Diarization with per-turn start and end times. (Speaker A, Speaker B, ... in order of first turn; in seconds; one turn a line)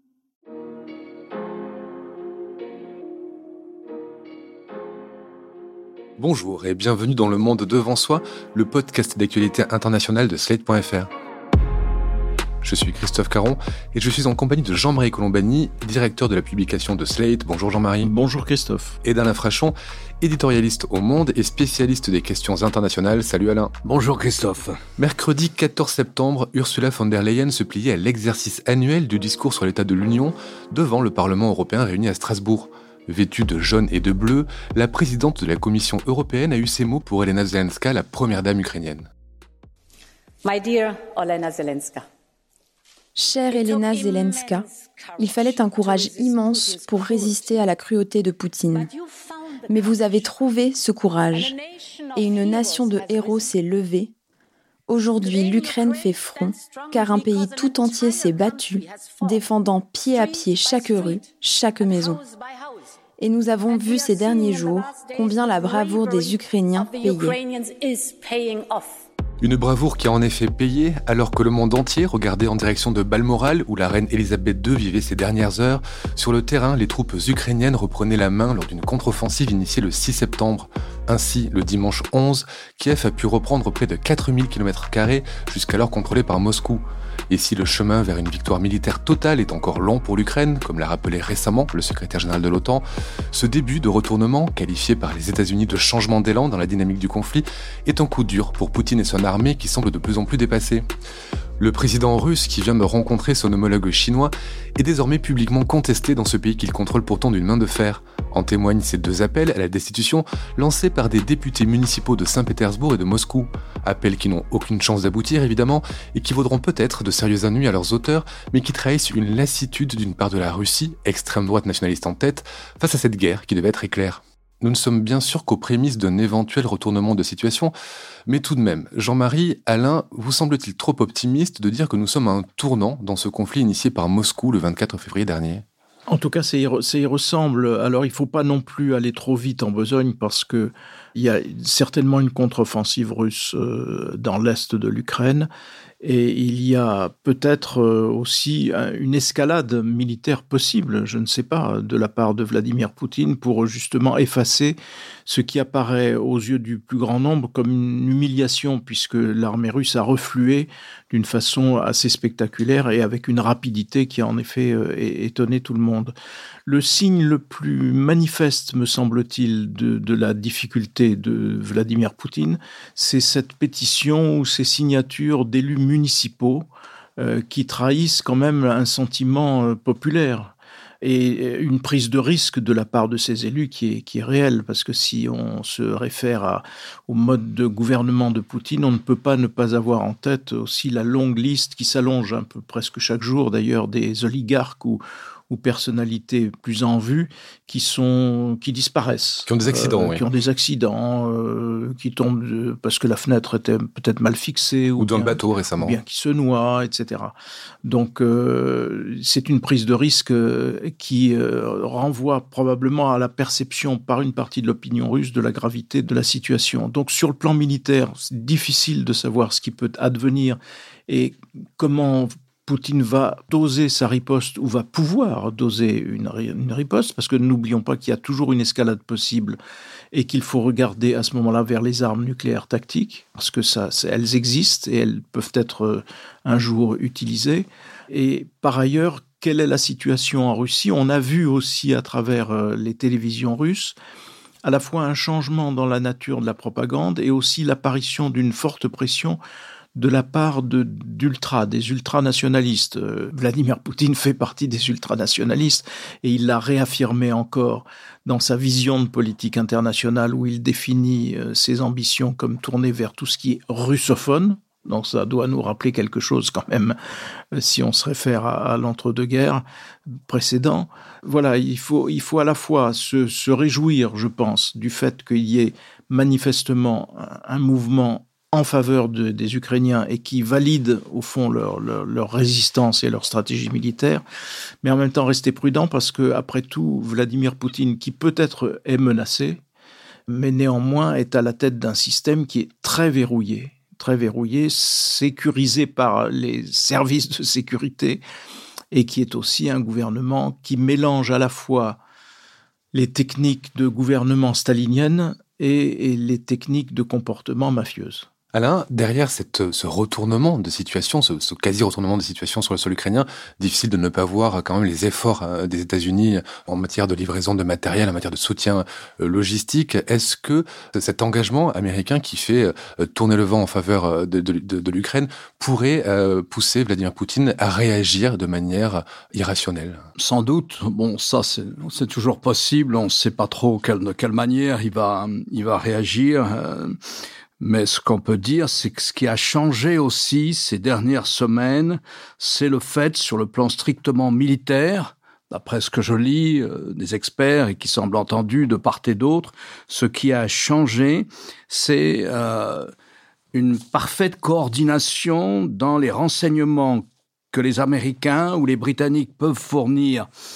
Speaker A: 6.2-11.1
Speaker A: 12.6-18.1
Speaker B: 18.0-19.0
Speaker A: 19.0-23.7
Speaker C: 23.8-24.8
Speaker A: 25.0-39.1
Speaker D: 40.4-42.1
Speaker E: 43.1-44.7
Speaker D: 43.5-47.7
Speaker E: 45.2-48.9
Speaker D: 48.7-50.4
Speaker E: 49.7-51.5
Speaker D: 51.3-53.6
Speaker E: 52.1-54.1
Speaker E: 54.9-62.2
Speaker D: 55.2-59.5
Speaker D: 60.1-63.0
Speaker E: 63.2-67.4
Speaker D: 63.7-69.0
Speaker A: 69.4-100.9
Speaker A: 101.6-127.7
Speaker A: 128.3-135.6
Speaker B: 136.1-145.5
Speaker B: 146.0-154.8
Speaker B: 155.3-166.1
Speaker B: 166.7-176.7
Speaker B: 177.2-207.3
Speaker A: 199.5-200.2
Speaker A: 205.0-206.0
Speaker B: 207.8-229.6
Speaker B: 230.1-243.9
Speaker B: 244.6-249.4
Speaker B: 250.0-267.0
Speaker B: 267.5-269.6
Speaker B: 270.3-284.2
Speaker B: 284.8-289.6
Speaker B: 290.3-298.2
Speaker B: 298.9-302.0
Speaker B: 302.9-308.3
Speaker A: 308.5-330.0
Speaker C: 330.2-337.0
Speaker C: 337.6-352.9
Speaker C: 353.5-360.3